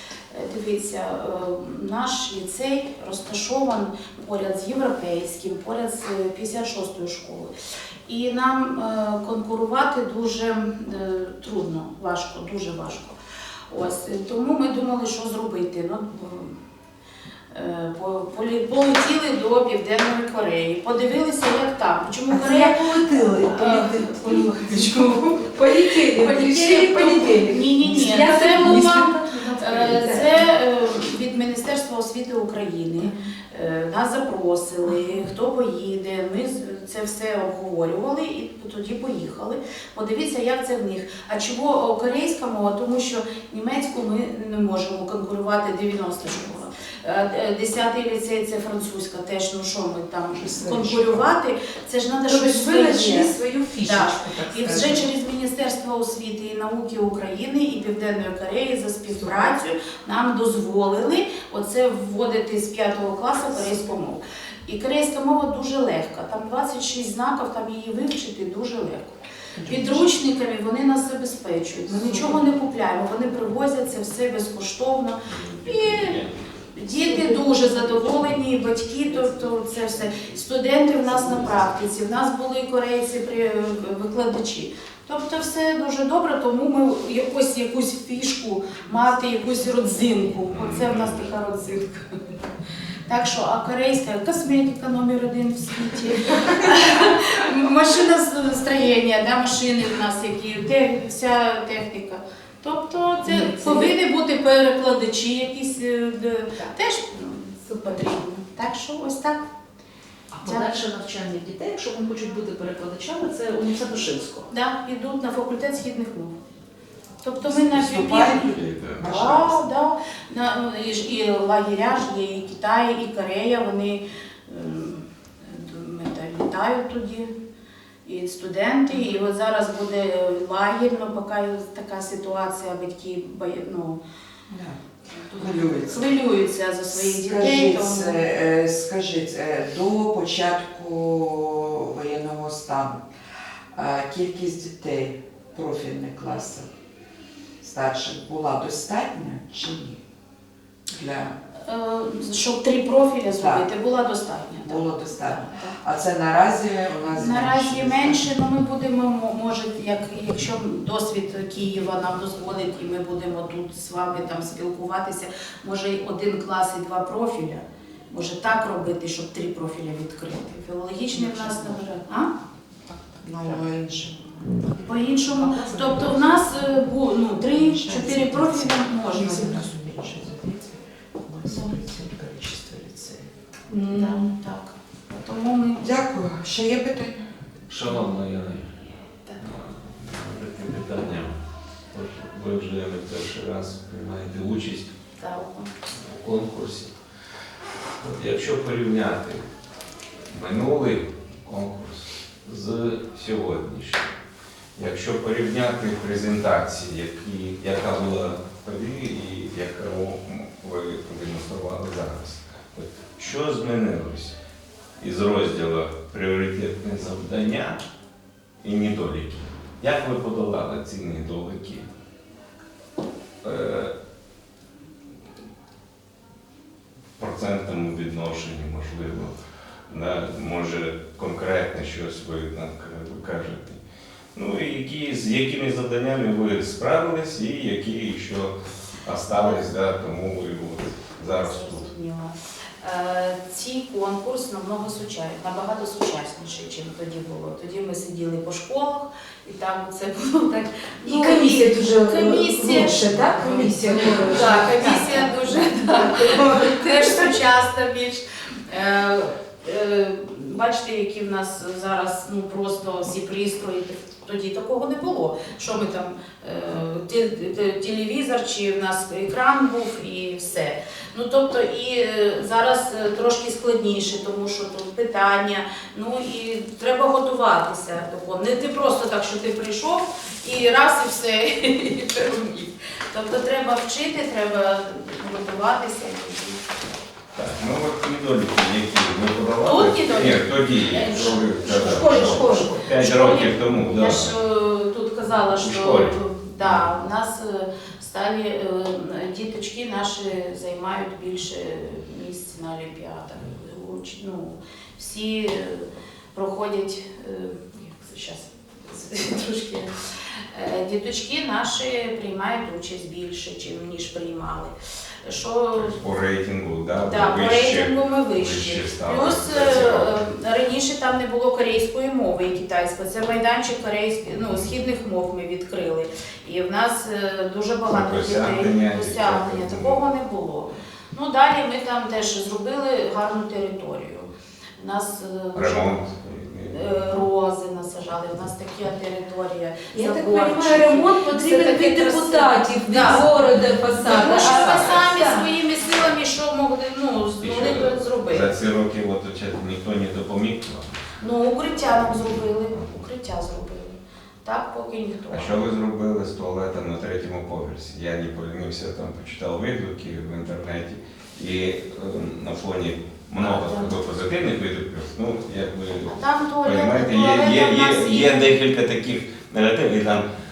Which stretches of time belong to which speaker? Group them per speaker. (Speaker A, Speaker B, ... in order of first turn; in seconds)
Speaker A: 0.3-7.5, 8.1-13.2, 13.7-16.6, 17.5-25.5, 26.1-76.2, 76.7-92.3, 93.1-109.4, 110.4-110.8, 114.5-116.3, 117.2-127.3, 128.0-134.0, 135.3-138.2, 151.6-155.8, 157.1-172.3, 174.8-179.7, 181.4-181.8, 183.8-185.8, 195.2-195.7, 239.3-239.7, 241.2-286.8, 289.6-309.9, 310.5-314.7, 315.2-316.0, 317.0-335.9, 336.7-343.3, 344.0-348.5, 351.2-355.6, 363.4-364.0, 366.0-368.5
Speaker B: 22.3-30.4, 50.6-51.1, 52.3-55.0, 59.1-59.5, 77.1-78.0, 103.3-103.9, 107.7-108.1, 183.7-184.2, 251.0-257.1, 291.7-292.7, 339.9-345.4
Speaker C: 69.6-70.0, 117.4-119.6, 134.5-134.8, 135.3-136.1, 136.9-143.0, 143.7-146.7, 147.6-150.0, 150.9-151.3, 153.3-153.7, 154.6-158.2, 171.1-171.7, 173.1-174.8, 175.7-175.9, 177.6-180.7, 181.3-183.3, 185.8-187.3
Speaker D: 75.3-76.6, 90.5-91.3, 118.6-119.0, 187.7-188.8, 189.4-191.4, 191.9-194.9, 195.9-196.9, 198.0-199.4, 200.3-204.1, 204.8-214.3, 215.0-217.8, 218.6-221.9, 223.4-223.9, 227.2-229.3, 229.9-233.8, 234.3-238.5, 239.0-241.9, 287.3-294.4, 295.6-296.9, 315.7-320.2, 327.9-330.1, 335.5-337.2, 347.4-351.0, 352.1-353.0, 355.3-370.2
Speaker E: 110.3-114.5, 175.4-176.4, 344.1-345.2